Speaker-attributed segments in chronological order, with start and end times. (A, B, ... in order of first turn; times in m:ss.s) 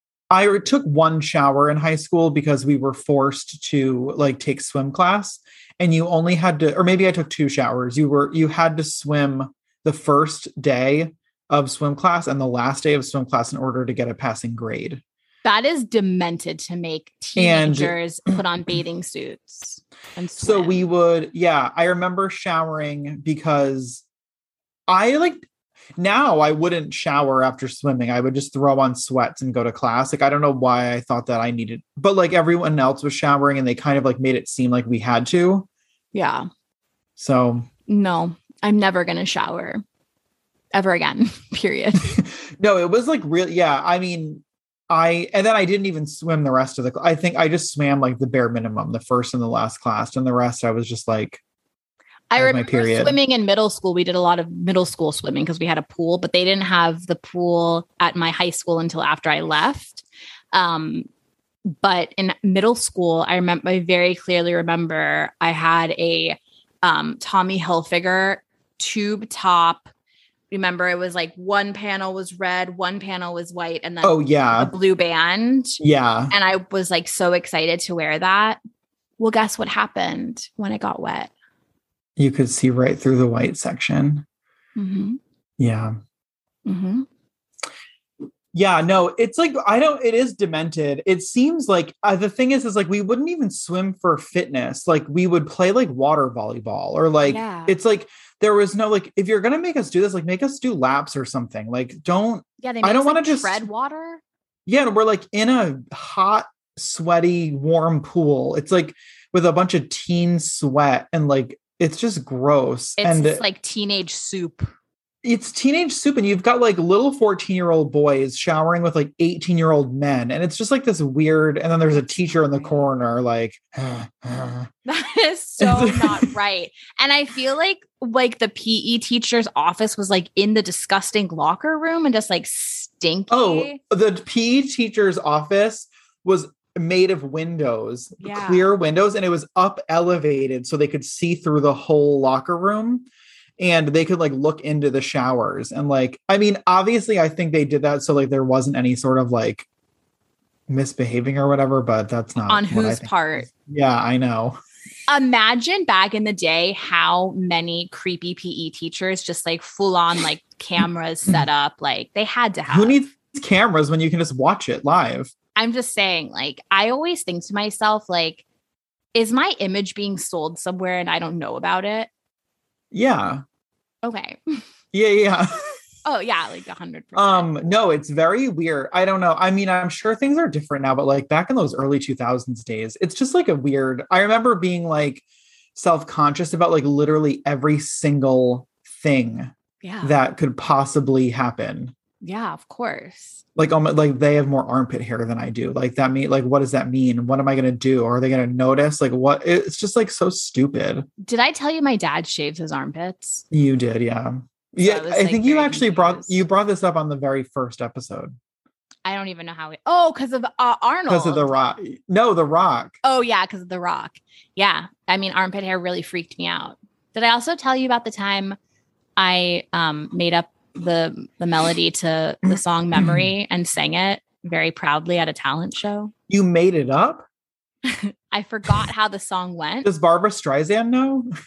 0:00.3-0:15.0 A
0:15.4-0:20.8 B
0:17.4-0:17.9 A
0:20.4-0:24.0 A
0:24.9-0:25.4 A
0:26.0-0:35.7 A
0:36.1-0:36.5 B
0:37.2-0:37.7 A
0:37.9-0:39.8 B
0:40.7-0:42.2 B
0:42.2-0:51.4 A
0:52.3-1:01.1 B
0:52.4-0:53.2 A
1:01.7-1:09.9 B
1:10.5-1:15.8 B
1:14.0-1:14.7 A
1:15.8-1:16.3 A
1:16.3-1:18.6 B
1:19.2-1:21.3 B
1:22.2-1:24.2 A
1:24.8-1:25.2 B
1:25.6-1:26.0 A
1:26.6-1:27.0 B
1:28.5-1:43.6 A
1:37.2-1:37.8 B
1:42.6-1:44.2 B
1:44.7-1:53.4 A
1:53.0-1:54.7 B
1:55.2-2:04.7 A
2:01.9-2:02.9 B
2:04.8-2:13.8 B
2:05.6-2:06.3 A
2:13.3-2:23.1 A
2:18.2-2:18.7 B
2:23.6-2:29.6 A
2:30.7-2:34.6 A
2:32.4-2:33.5 B
2:35.1-2:43.0 B
2:42.7-2:45.3 A
2:45.5-2:48.4 B
2:49.1-2:52.1 B
2:52.9-2:53.4 A
2:54.0-2:54.6 B
2:54.9-2:55.6 A
2:56.0-2:57.6 B
2:57.2-3:05.2 A
3:05.7-3:11.9 A
3:09.8-3:10.1 B
3:12.2-3:13.4 B
3:13.6-3:21.1 A
3:21.2-3:23.4 B
3:23.5-3:28.3 A
3:24.8-3:26.4 B
3:29.0-3:31.5 B
3:31.1-3:33.0 A
3:33.0-3:38.6 B
3:39.2-3:46.1 B
3:43.0-3:43.3 A
3:46.3-3:47.2 A
3:47.8-3:49.9 B
3:49.8-3:51.3 A